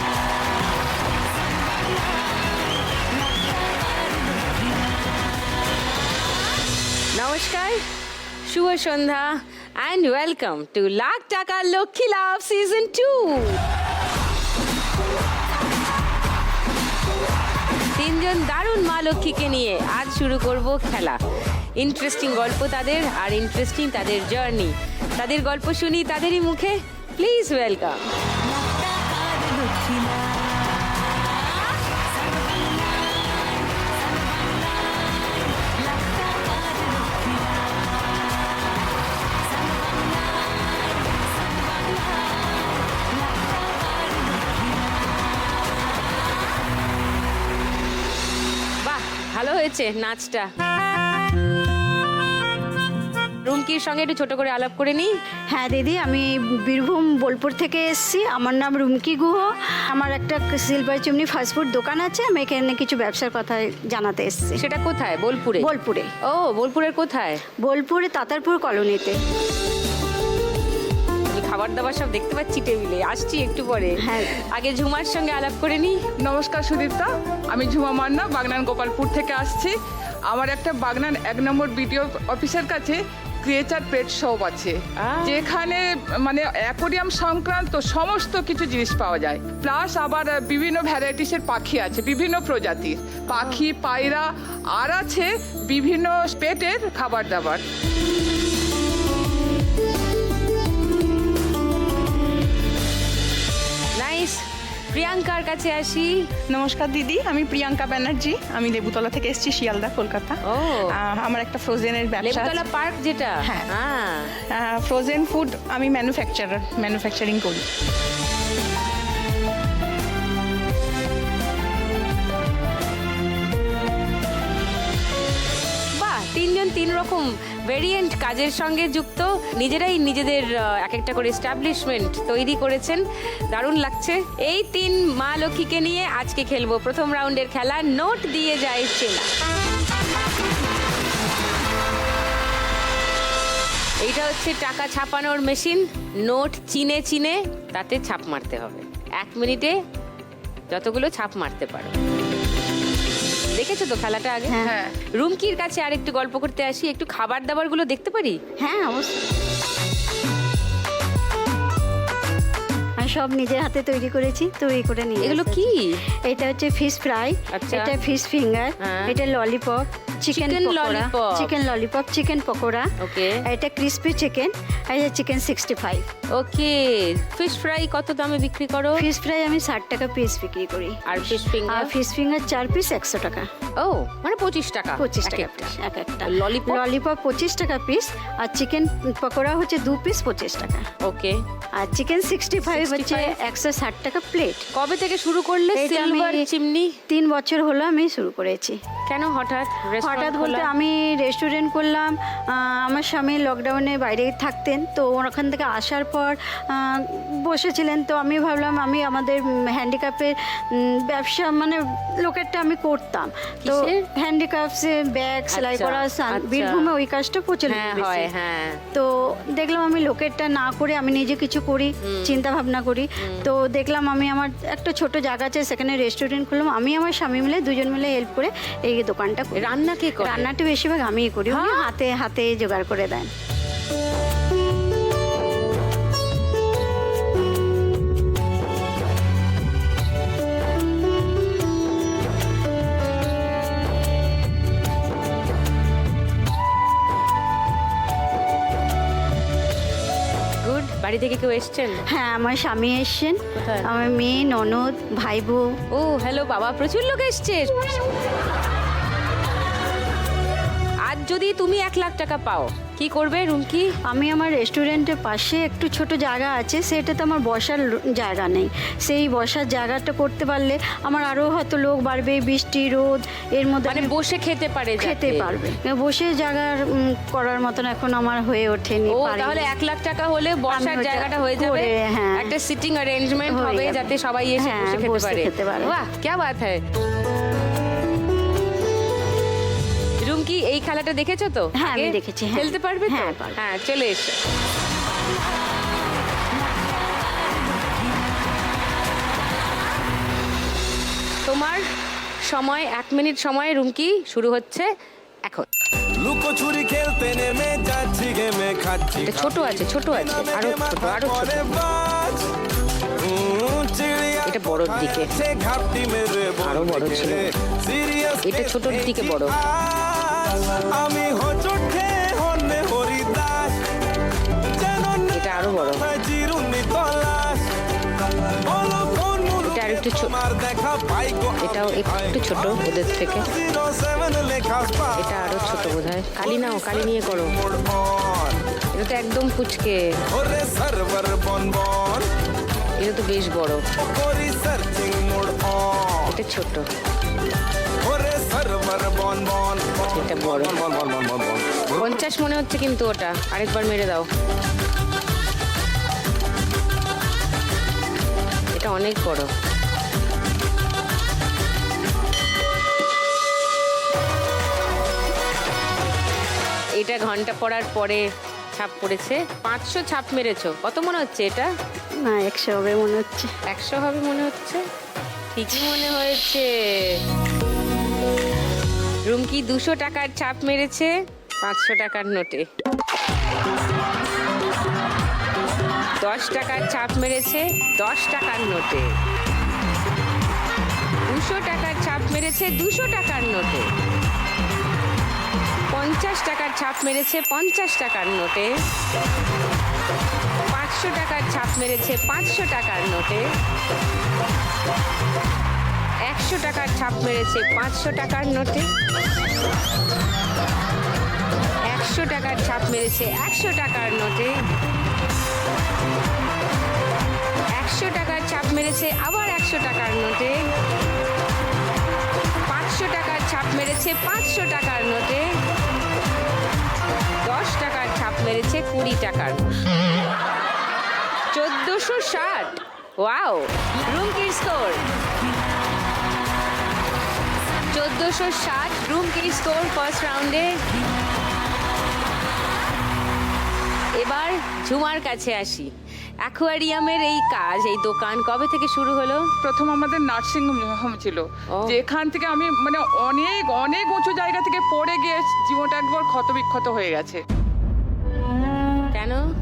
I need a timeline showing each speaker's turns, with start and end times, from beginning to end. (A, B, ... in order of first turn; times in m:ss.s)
0:07.1-0:07.8 A
0:08.5-0:13.6 A
0:18.0-0:21.2 A
0:21.8-0:28.0 A
0:28.6-0:30.3 A
0:35.9-0:37.3 A
0:48.8-0:50.5 A
0:53.4-0:55.1 A
0:55.5-1:04.6 B
1:04.6-1:05.7 A
1:05.6-1:06.1 B
1:06.2-1:07.4 A
1:07.6-1:09.2 B
1:11.3-1:16.0 A
1:14.0-1:14.4 B
1:16.2-1:19.8 C
1:20.3-1:37.6 C
1:25.0-1:25.4 A
1:33.3-1:33.6 A
1:44.0-1:46.2 A
1:46.5-1:52.6 D
1:50.5-1:51.0 A
1:52.2-1:54.3 A
1:53.4-1:53.7 D
1:54.4-1:57.7 D
2:06.0-2:19.3 A
2:24.0-2:29.8 A
2:30.7-2:32.0 A
2:33.6-2:34.6 A
2:34.5-2:34.8 B
2:34.6-2:34.9 C
2:35.2-2:38.4 A
2:38.6-2:39.2 B
2:43.0-2:52.9 B
2:45.2-2:46.0 A
2:47.5-2:47.9 A
2:48.8-2:49.2 A
2:50.3-2:51.5 A
2:53.0-2:53.4 A
2:53.4-2:56.1 B
2:56.3-2:59.1 A
2:59.0-3:03.5 B
3:01.1-3:01.9 A
3:03.8-3:05.7 A
3:05.0-3:10.9 B
3:06.2-3:06.8 A
3:11.0-3:11.4 A
3:11.8-3:14.7 B
3:12.7-3:13.4 A
3:14.7-3:17.0 A
3:15.7-3:16.5 B
3:17.1-3:18.8 B
3:19.1-3:20.7 A
3:20.0-3:38.3 B
3:33.6-3:33.9 A
3:35.5-3:36.9 A
3:37.7-3:38.8 A
3:38.9-3:53.3 B
3:42.0-3:42.4 A
3:43.2-3:43.5 A
3:49.6-3:50.5 A
3:51.5-3:51.9 A
4:10.6-4:12.0 A
4:12.1-4:15.7 B
4:13.6-4:13.9 A
4:15.9-4:18.0 A
4:21.1-4:24.0 A
4:24.1-4:34.1 B
4:33.9-4:35.5 A
4:35.0-4:39.7 B
4:39.1-4:46.8 A
4:40.7-4:42.5 B
4:43.5-4:45.9 B
4:50.2-4:54.4 A
4:51.8-4:53.6 B
5:01.5-5:01.8 A
5:02.5-5:04.9 A
5:06.2-5:12.5 E
5:09.2-5:11.8 A
5:13.2-5:23.8 E
5:14.4-5:15.3 A
5:16.6-5:17.5 A
5:18.4-5:19.6 A
5:24.7-5:27.7 E
5:25.3-5:26.0 A
5:28.6-5:38.6 E
5:29.6-5:30.4 A
5:31.6-5:33.5 A
5:35.1-5:37.5 A
5:38.9-5:40.0 A
5:40.3-5:42.3 E
5:43.0-5:43.8 A
5:44.0-5:46.3 E
5:46.3-5:46.8 A
5:48.0-5:52.2 E
5:50.0-5:50.8 A
5:52.0-5:54.3 A
5:58.8-5:59.5 A
6:07.0-6:11.7 A
6:12.2-6:13.5 B
6:13.7-6:14.9 A
6:15.5-6:17.2 A
6:19.3-6:22.7 A
6:26.2-6:29.1 A
6:31.3-6:33.9 A
6:35.9-6:38.8 A
6:40.7-6:43.5 A
6:46.3-6:48.9 A
6:51.9-6:54.6 A
6:57.8-7:00.6 A
7:02.7-7:05.6 A
7:07.4-7:09.7 A
7:11.5-7:15.1 A
7:17.9-7:20.8 A
7:24.2-7:25.9 A
7:26.4-7:29.5 A
7:29.6-7:37.4 C
7:39.1-7:39.4 A